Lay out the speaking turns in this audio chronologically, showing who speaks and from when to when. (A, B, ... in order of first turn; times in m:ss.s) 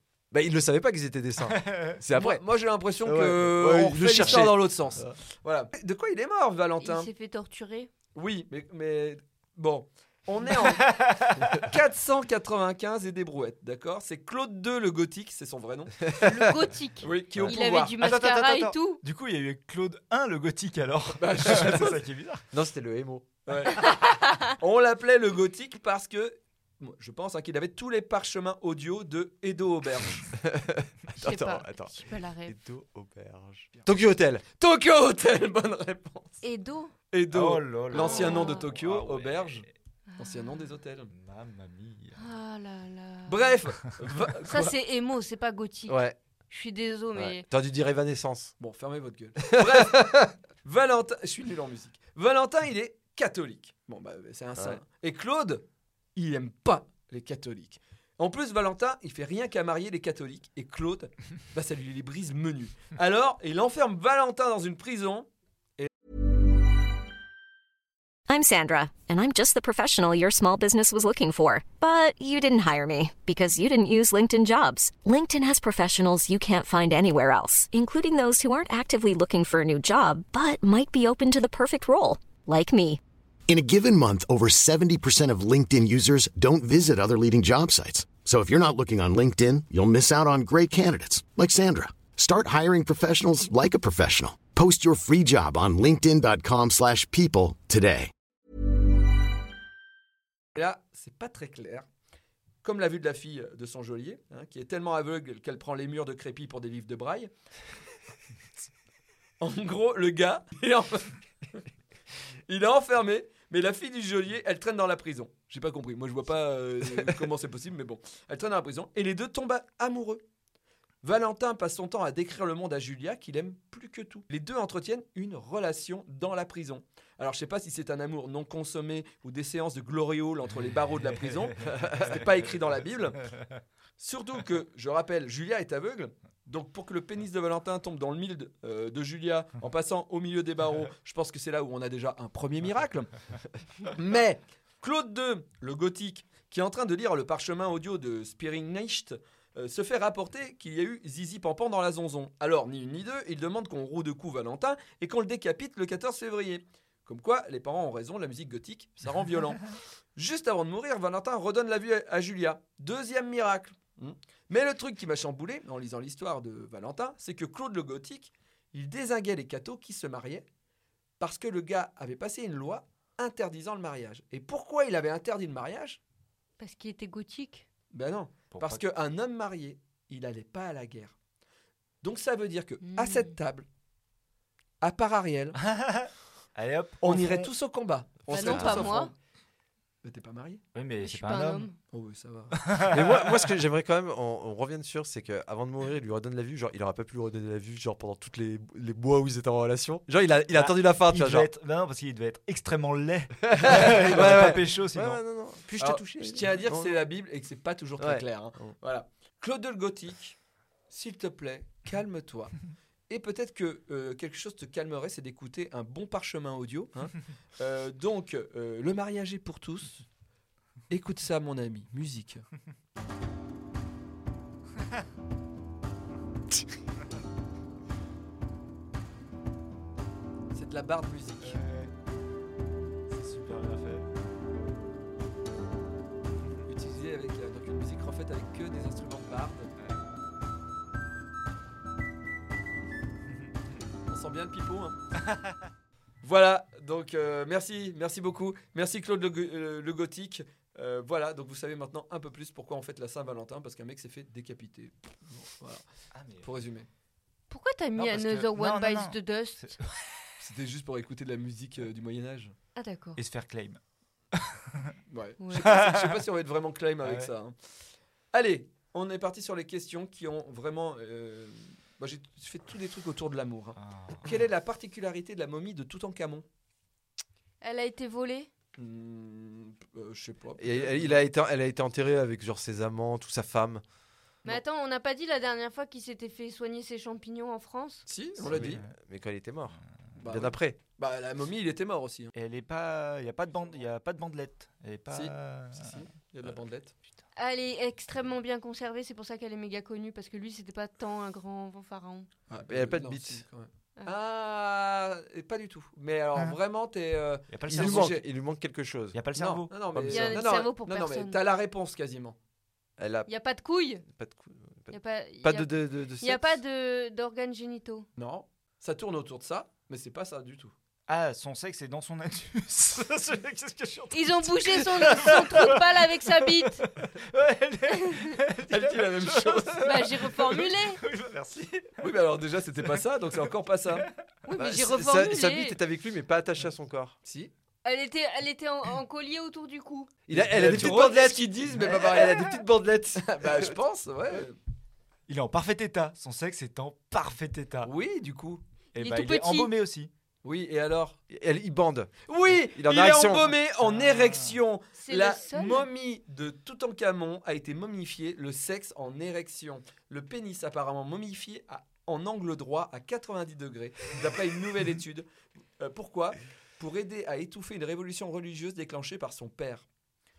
0:00.3-0:02.4 A
0:01.5-0:02.0 B
0:02.1-0:07.1 C
0:03.0-0:05.2 A
0:06.8-0:07.9 D
0:08.2-0:16.3 C
0:10.6-0:11.7 B
0:16.2-0:19.0 D
0:17.0-0:18.0 C
0:17.3-0:22.4 B
0:21.2-0:22.0 C
0:22.5-0:23.3 A
0:23.5-0:30.3 C
0:23.9-0:24.3 D
0:30.4-0:34.4 A
0:31.2-0:32.6 D
0:34.6-0:36.4 C
0:36.4-0:36.9 D
0:37.1-0:39.6 C
0:37.3-0:39.7 B
0:37.9-0:38.6 D
0:40.1-0:40.7 D
0:40.2-0:41.1 C
0:41.1-0:42.2 B
0:42.2-0:43.6 D
0:43.3-0:44.8 C
0:44.4-0:47.5 D
0:45.9-0:46.2 A
0:47.2-0:48.6 A
0:48.6-1:05.9 C
0:49.5-0:50.2 A
1:08.3-1:23.0 E
1:23.5-1:38.1 F
1:40.6-1:41.8 C
1:42.6-1:47.3 C
1:49.4-1:51.2 C
1:52.5-2:00.2 C
2:01.0-2:13.2 C
2:14.0-2:23.1 C
2:23.8-2:39.6 C
2:40.2-2:50.5 C
2:51.2-2:56.0 C
2:56.6-2:57.7 D
2:57.9-3:01.2 C
2:58.5-2:58.8 B
3:02.0-3:03.7 C
3:02.8-3:03.3 D
3:04.8-3:05.6 C
3:05.6-3:07.5 B
3:07.0-3:09.1 C
3:08.3-3:09.0 A
3:08.3-3:09.1 D
3:10.0-3:10.6 C
3:10.7-3:11.7 B
3:11.0-3:11.8 D
3:11.9-3:12.8 C
3:12.5-3:13.5 B
3:12.9-3:21.5 A
3:20.5-3:25.2 B
3:23.4-3:27.0 A
3:25.8-3:30.4 C
3:28.0-3:28.7 A
3:30.9-3:32.6 C
3:33.1-3:40.0 C
3:40.9-3:42.4 C
3:50.5-3:51.6 C
3:51.4-3:51.9 B
3:53.1-3:54.1 B
3:56.7-3:59.7 C
3:59.8-4:00.0 B
4:03.3-4:03.6 B
4:04.1-4:05.0 C
4:05.2-4:05.6 B
4:06.2-4:15.8 C
4:16.1-4:16.5 B
4:16.4-4:16.9 C
4:17.5-4:19.8 D
4:18.0-4:20.3 B
4:20.4-4:22.5 C
4:22.8-4:23.2 D
4:23.1-4:23.8 B
4:24.3-4:24.9 B
4:25.1-4:27.5 C
4:25.5-4:26.3 B
4:27.0-4:27.3 B
4:28.3-4:36.4 C
4:33.8-4:34.4 B
4:37.6-4:38.5 D
4:38.8-4:41.1 C
4:40.6-4:43.8 A
4:44.5-4:48.0 D
4:48.1-4:48.8 C
4:48.4-4:50.8 A
4:48.6-4:48.9 B
4:50.2-4:52.3 C
4:52.4-4:56.5 B
4:55.1-4:56.9 C
4:57.4-5:02.3 D
5:02.5-5:08.2 C
5:02.7-5:03.4 A
5:07.5-5:08.2 B
5:07.7-5:09.2 A
5:09.1-5:09.8 B
5:09.4-5:12.4 C
5:09.9-5:10.4 A
5:10.1-5:11.4 D
5:13.0-5:13.3 A
5:13.2-5:14.0 D
5:14.1-5:16.6 A
5:14.9-5:18.1 D
5:18.2-5:20.7 C
5:21.1-5:32.1 B
5:24.1-5:26.9 D
5:27.9-5:28.4 D
5:28.7-5:29.9 C
5:29.8-5:31.0 D
5:32.0-5:34.1 C
5:34.5-5:35.8 D
5:34.6-5:37.2 A
5:37.2-5:37.5 C
5:37.8-5:40.1 D
5:40.3-5:43.8 A
5:40.3-5:42.6 C
5:40.6-5:41.1 B
5:43.2-5:44.6 C
5:45.3-5:47.9 B
5:47.8-5:48.6 C
5:48.9-5:50.1 B
5:49.0-5:49.7 D
5:50.4-5:51.2 C
5:51.3-5:53.6 A
5:52.2-6:05.2 C
5:53.8-5:54.6 B
5:55.0-5:55.9 D
6:05.8-6:09.9 C